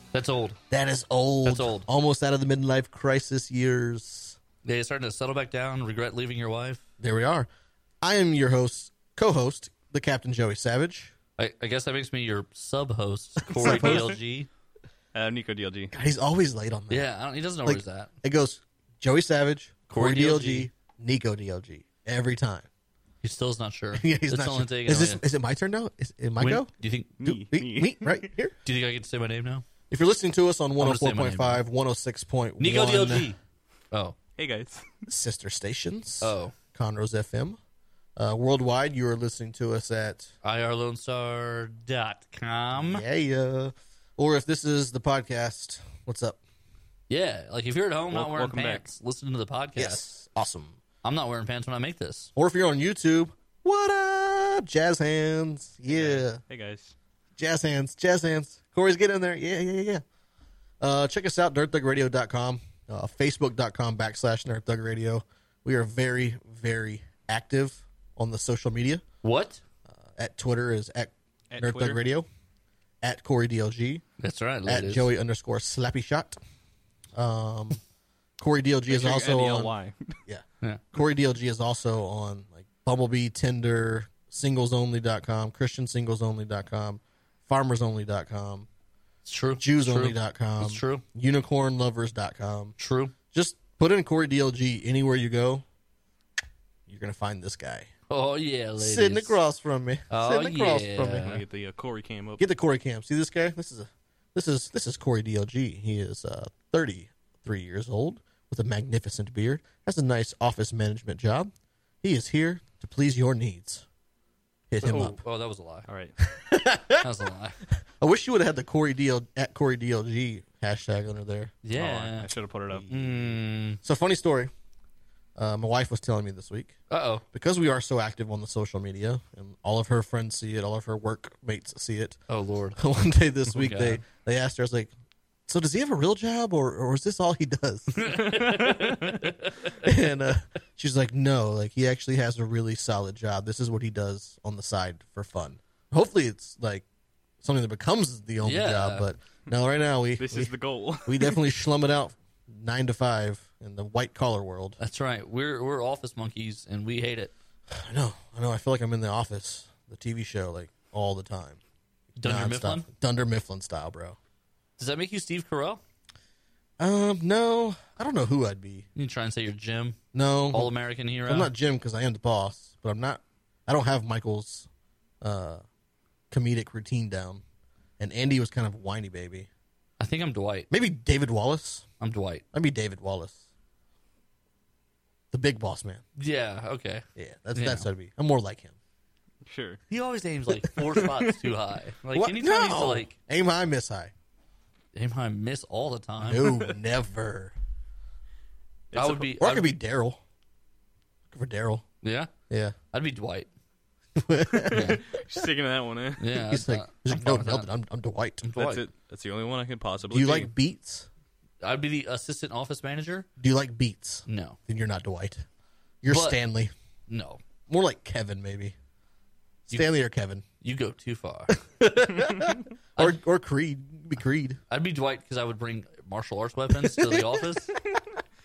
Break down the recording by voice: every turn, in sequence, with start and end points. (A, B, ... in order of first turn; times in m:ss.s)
0:00.1-0:00.6 A
0:00.7-0:04.4 B
0:01.4-0:01.9 A
0:04.6-0:06.8 A
0:07.0-0:07.5 B
0:08.0-0:11.1 B
0:11.4-0:14.5 A
0:13.5-0:14.1 B
0:13.6-0:14.1 C
0:15.1-0:15.9 C
0:15.9-0:17.1 B
0:16.9-0:18.1 A
0:17.6-0:22.7 B
0:19.9-0:20.7 A
0:23.2-0:25.2 A
0:23.9-0:26.7 B
0:26.4-0:27.1 A
0:27.2-0:28.2 C
0:27.2-0:28.5 B
0:28.6-0:29.6 A
0:29.9-0:33.3 B
0:30.8-0:31.6 A
0:32.6-0:33.4 A
0:33.9-0:34.2 A
0:34.4-0:34.8 C
0:35.1-0:37.6 B
0:36.2-0:36.5 A
0:38.2-0:40.3 B
0:40.4-0:43.0 A
0:42.7-0:46.4 B
0:47.1-0:50.1 A
0:48.1-0:48.9 C
0:49.8-0:50.8 B
0:51.0-0:52.3 A
0:52.4-0:56.4 B
0:55.9-0:56.9 C
0:57.4-1:00.0 B
1:00.8-1:09.0 B
1:09.2-1:09.6 A
1:10.1-1:12.3 B
1:11.5-1:12.0 C
1:13.0-1:14.0 B
1:14.2-1:15.1 A
1:14.6-1:16.4 B
1:17.1-1:17.8 B
1:18.4-1:19.7 B
1:18.9-1:20.2 C
1:20.3-1:28.7 B
1:29.2-1:31.0 A
1:29.6-1:32.7 B
1:32.8-1:33.1 A
1:33.3-1:35.6 B
1:36.9-1:37.9 B
1:38.1-1:39.4 A
1:38.8-1:41.3 B
1:40.1-1:41.4 A
1:41.0-1:42.4 C
1:42.4-1:51.5 B
1:52.0-1:53.8 B
1:54.7-1:55.2 B
1:54.8-1:55.8 A
1:55.9-1:56.1 C
1:56.2-1:57.1 B
1:57.0-1:57.6 A
1:57.8-2:01.6 B
2:01.6-2:02.3 A
2:01.7-2:02.9 C
2:02.7-2:03.2 B
2:02.9-2:03.8 A
2:03.8-2:04.5 B
2:05.4-2:06.8 B
2:06.9-2:07.2 A
2:07.3-2:12.2 B
2:12.3-2:12.8 A
2:12.8-2:14.9 B
2:13.5-2:14.0 A
2:15.5-2:18.1 B
2:17.9-2:19.9 A
2:18.1-2:19.0 C
2:19.8-2:26.8 B
2:27.4-2:30.5 B
2:28.4-2:29.1 A
2:30.2-2:31.4 C
2:31.0-2:34.8 B
2:34.8-2:37.3 A
2:37.7-2:41.6 B
2:42.2-2:42.9 A
2:42.2-2:44.2 B
2:44.8-2:45.8 A
2:46.8-2:48.8 B
2:48.9-2:50.0 A
2:50.1-2:50.7 B
2:50.5-2:51.5 A
2:51.2-2:54.7 B
2:55.2-2:55.6 B
2:56.3-2:57.4 B
2:58.0-2:59.5 B
3:00.0-3:00.7 A
3:00.7-3:01.9 B
3:02.0-3:02.4 A
3:02.5-3:03.4 B
3:05.3-3:06.0 B
3:06.2-3:07.9 A
3:07.2-3:08.7 B
3:09.4-3:09.8 C
3:09.9-3:13.1 A
3:12.1-3:14.1 B
3:14.9-3:16.4 A
3:16.2-3:17.5 B
3:16.4-3:16.7 C
3:18.9-3:19.3 C
3:18.9-3:19.7 A
3:19.4-3:20.2 B
3:21.3-3:21.8 B
3:22.0-3:22.3 A
3:22.5-3:22.8 B
3:22.9-3:23.5 A
3:24.2-3:25.4 B
3:24.5-3:26.2 C
3:24.7-3:25.0 A
3:26.2-3:27.7 A
3:26.5-3:28.4 B
3:28.4-3:28.8 A
3:28.6-3:30.5 C
3:30.1-3:31.1 B
3:31.6-3:33.3 A
3:33.4-3:35.4 B
3:34.3-3:34.6 A
3:36.0-3:36.7 B
3:36.1-3:36.4 A
3:37.1-3:37.4 A
3:37.7-3:38.7 B
3:39.7-3:40.4 B
3:40.6-3:41.5 A
3:41.5-3:44.6 B
3:44.7-3:47.7 A
3:46.7-3:48.0 B